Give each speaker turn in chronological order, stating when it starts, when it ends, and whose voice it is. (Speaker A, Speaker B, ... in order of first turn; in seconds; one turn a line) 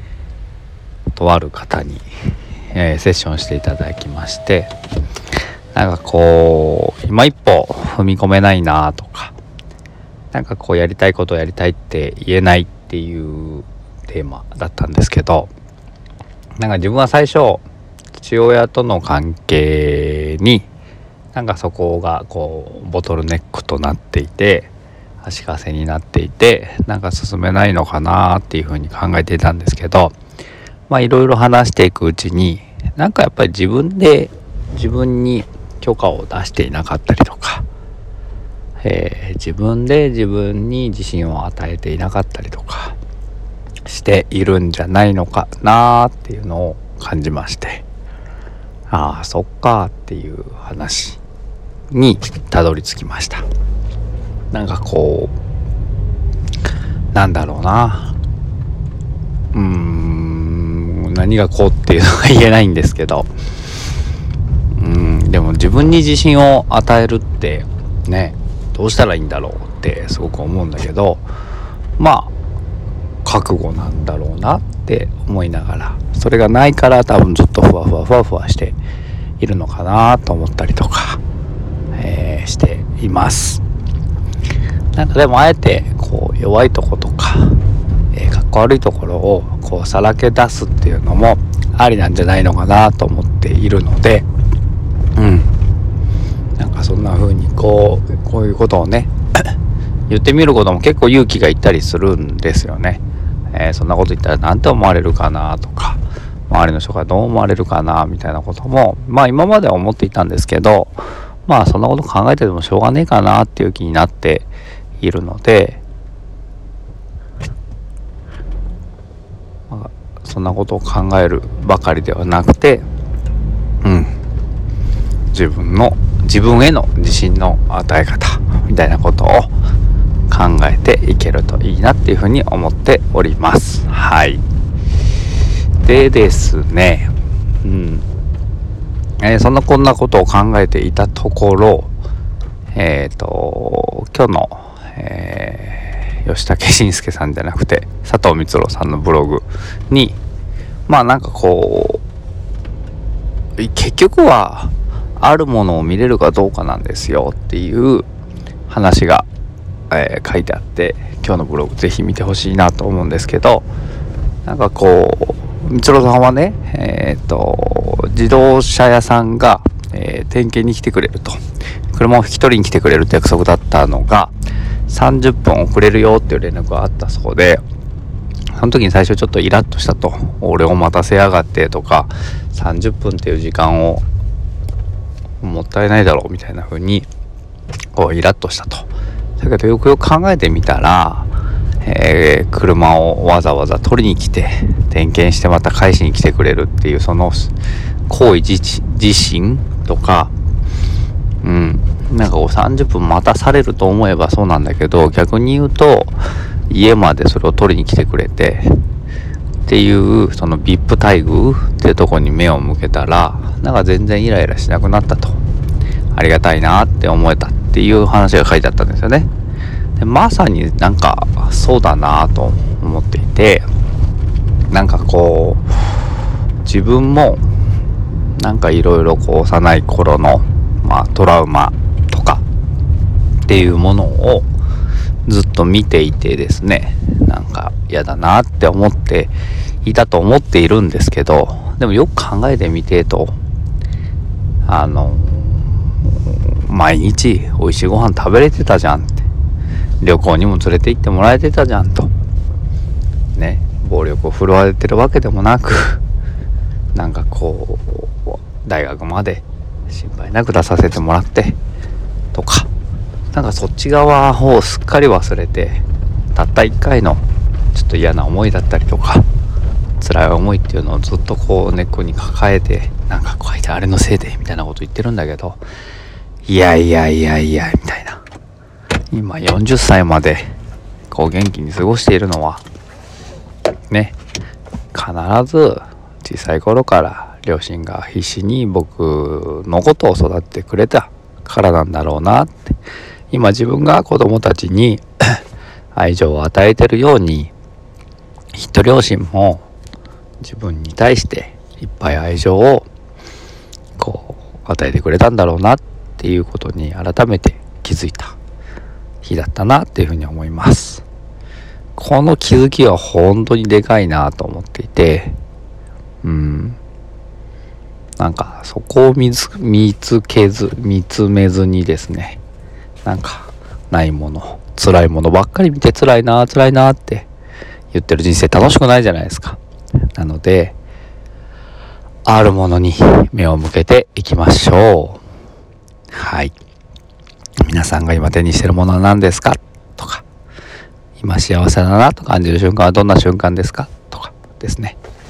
Speaker A: 1.1-2.1
Speaker A: 2.7-4.7
Speaker A: 5.7-9.3
Speaker A: 10.3-15.5
Speaker A: 16.6-17.6
Speaker A: 18.2-20.7
Speaker A: 21.3-24.7
Speaker A: 25.2-30.1
Speaker A: 30.9-37.6
Speaker A: 38.8-43.0
Speaker A: 43.9-47.8
Speaker A: 48.9-51.2
Speaker A: 51.9-53.5
Speaker A: 54.5-55.3
Speaker A: 57.1-58.1
Speaker A: 59.5-63.3
Speaker A: 64.8-71.2
Speaker A: 72.0-72.3
Speaker A: 73.2-78.8
Speaker A: 79.4-81.2
Speaker A: 82.0-83.6
Speaker A: 85.0-87.6
Speaker A: 88.1-94.3
Speaker A: 95.2-95.5
Speaker A: 96.6-99.5
Speaker A: 100.1-114.5
Speaker A: 115.0-115.8
Speaker A: 119.7-122.8
Speaker A: 123.8-124.1
Speaker A: 125.3-129.5
Speaker A: 130.3-134.4
Speaker A: 135.8-137.1
Speaker A: 137.6-138.1
Speaker A: 139.2-141.9
Speaker A: 142.7-150.2
Speaker A: 150.9-152.0
Speaker A: 153.6-158.1
Speaker A: 158.7-159.3
Speaker A: 159.9-163.7
Speaker A: 164.4-171.4
Speaker A: 171.9-174.3
Speaker A: 174.9-177.6
Speaker A: 178.6-184.0
Speaker A: 185.4-187.1
Speaker A: 187.9-191.3
Speaker A: 191.8-197.6
Speaker A: 198.1-200.3
Speaker A: 201.4-206.2
Speaker A: 206.7-208.7
Speaker A: 209.7-215.4
Speaker A: 216.1-219.3
Speaker A: 220.0-223.7
Speaker A: 224.7-226.1
Speaker A: 226.6-227.5
Speaker A: 228.4-232.4
Speaker A: 233.5-234.5
Speaker A: 235.3-243.4
Speaker A: 244.7-249.3
Speaker A: 250.0-252.1
Speaker A: 253.3-256.0
Speaker A: 256.9-261.6
Speaker A: 262.3-262.7
Speaker A: 263.3-265.8
Speaker A: 266.4-267.2
Speaker A: 267.7-269.2
Speaker A: 270.0-275.6
Speaker A: 276.5-278.2
Speaker A: 279.1-280.5
Speaker A: 281.1-282.6
Speaker A: 284.9-292.8
Speaker A: 293.3-295.4
Speaker A: 295.9-297.5
Speaker A: 298.5-299.7
Speaker A: 300.4-302.9
Speaker A: 304.0-308.4
Speaker A: 309.2-311.0
Speaker A: 312.0-315.4
Speaker A: 316.2-316.8
Speaker A: 318.2-322.4
Speaker A: 323.1-327.3
Speaker A: 327.9-329.6
Speaker A: 330.1-330.8
Speaker A: 332.3-335.2
Speaker A: 336.1-336.5
Speaker A: 337.6-340.2
Speaker A: 341.2-345.0